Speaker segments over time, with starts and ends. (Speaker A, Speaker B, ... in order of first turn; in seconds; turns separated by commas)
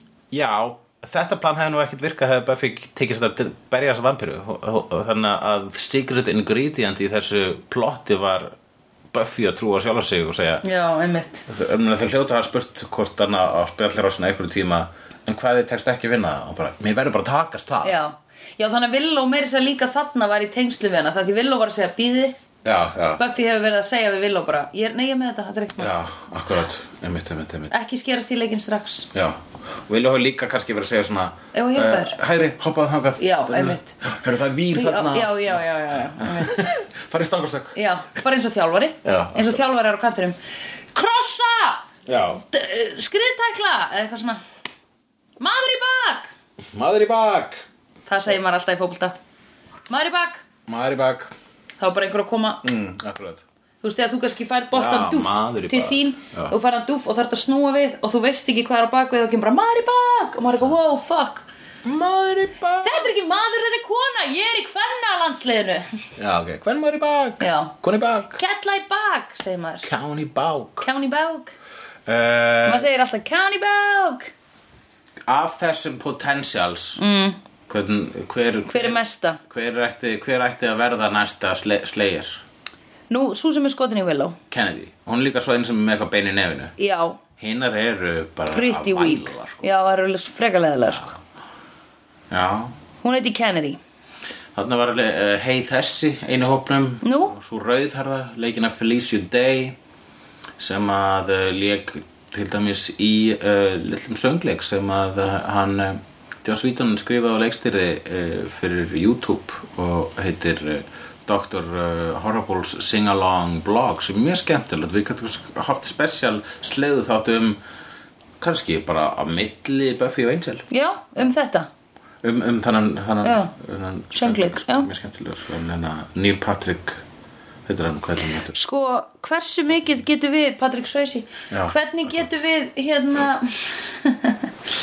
Speaker A: 0.3-8.5, Speaker A: 9.1-10.6, Speaker B: 10.6-11.5, Speaker A: 11.5-18.0, Speaker B: 17.8-22.4, Speaker A: 22.6-23.2, Speaker B: 23.2-26.0, Speaker A: 25.8-27.7, Speaker B: 27.7-29.1, Speaker A: 29.1-35.6, Speaker B: 31.5-32.2, Speaker B: 33.2-33.9, Speaker B: 34.7-36.6, Speaker A: 36.2-37.8, Speaker B: 37.8-40.4, Speaker A: 39.0-39.6, Speaker B: 40.9-44.4, Speaker A: 42.1-42.4, Speaker B: 45.4-46.3, Speaker A: 46.7-47.6, Speaker B: 48.1-49.1, Speaker B: 49.9-50.4, Speaker A: 50.7-51.3, Speaker B: 51.8-52.6, Speaker A: 52.6-53.4, Speaker B: 53.8-61.5, Speaker A: 54.7-56.5, Speaker A: 61.8-63.1, Speaker B: 62.8-66.1, Speaker A: 66.2-68.4, Speaker B: 67.4-67.7, Speaker B: 68.4-69.9, Speaker A: 69.8-70.9, Speaker B: 70.8-71.5, Speaker A: 72.1-72.9, Speaker B: 72.7-74.3, Speaker A: 75.3-77.0, Speaker B: 77.0-77.4, Speaker A: 77.7-82.4, Speaker B: 78.7-79.4, Speaker B: 83.1-84.4, Speaker A: 84.5-86.8, Speaker B: 86.8-87.2, Speaker A: 87.4-89.7, Speaker B: 88.5-91.1, Speaker A: 92.3-92.7, Speaker B: 93.0-93.8, Speaker A: 94.5-99.8, Speaker B: 97.0-97.4, Speaker A: 100.6-117.6, Speaker A: 118.4-120.7, Speaker B: 120.7-121.7, Speaker A: 122.2-127.0, Speaker B: 123.2-123.5, Speaker B: 124.1-124.9, Speaker A: 127.7-128.6, Speaker B: 128.5-134.5, Speaker A: 131.5-132.3